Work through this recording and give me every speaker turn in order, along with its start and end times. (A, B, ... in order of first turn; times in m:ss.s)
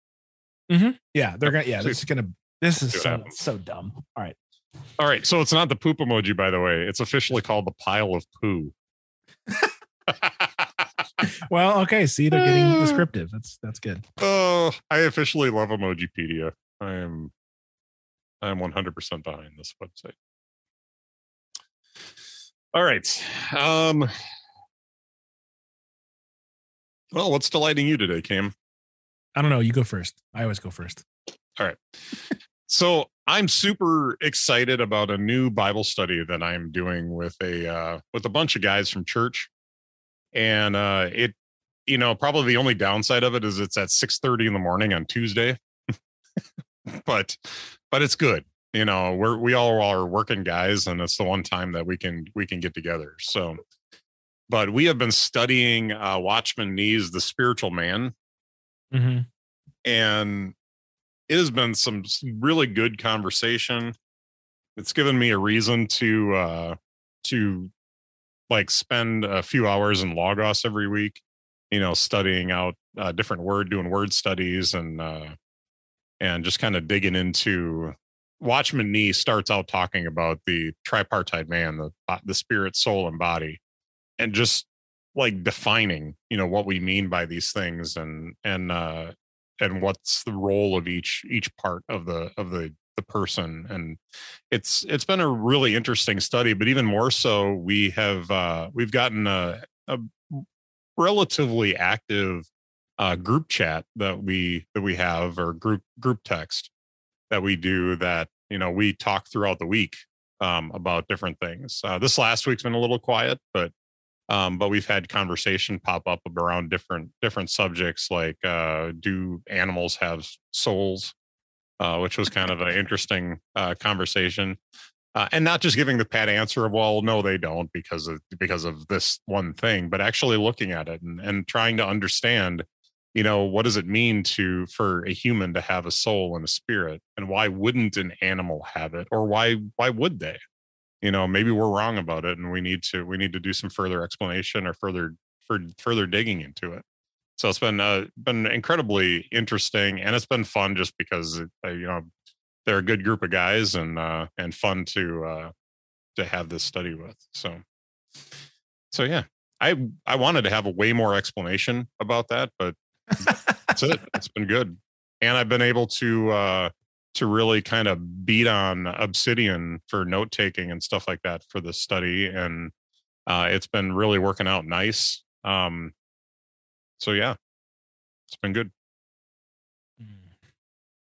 0:00.7-0:04.4 A
0:01.5-0:02.0 B
0:02.9-0:03.3 B
0:05.0-0:08.7 B
0:10.1-0:10.6 B
0:11.2-0:14.0 A
0:12.3-0:13.0 B
0:14.2-0:17.3 B
0:18.4-0:20.2 B
0:22.7-0:24.1 B
0:27.1-0:28.5 B
0:29.4-0:31.0 A
0:31.6-0:39.5 B
0:40.3-0:41.4 B
0:41.9-0:45.6 B
0:46.9-0:53.6 B
0:54.5-0:58.1 B
0:58.9-0:59.3 A
0:59.8-1:00.6 B
1:01.3-1:03.9 B
1:04.8-1:07.7 B
1:08.5-1:15.4 B
1:16.2-1:23.6 B
1:24.2-1:34.0 B
1:34.5-1:40.4 B
1:41.0-1:42.5 B
1:43.0-1:46.7 B
1:47.3-1:53.7 B
1:54.3-2:01.1 B
2:01.8-2:04.6 B
2:05.2-2:20.4 B
2:21.0-2:26.8 B
2:27.4-2:32.1 B
2:32.7-2:35.5 B
2:36.2-2:37.6 B
2:38.9-2:52.7 B
2:53.3-2:55.9 B
2:57.0-2:57.4 B
2:58.3-2:58.7 B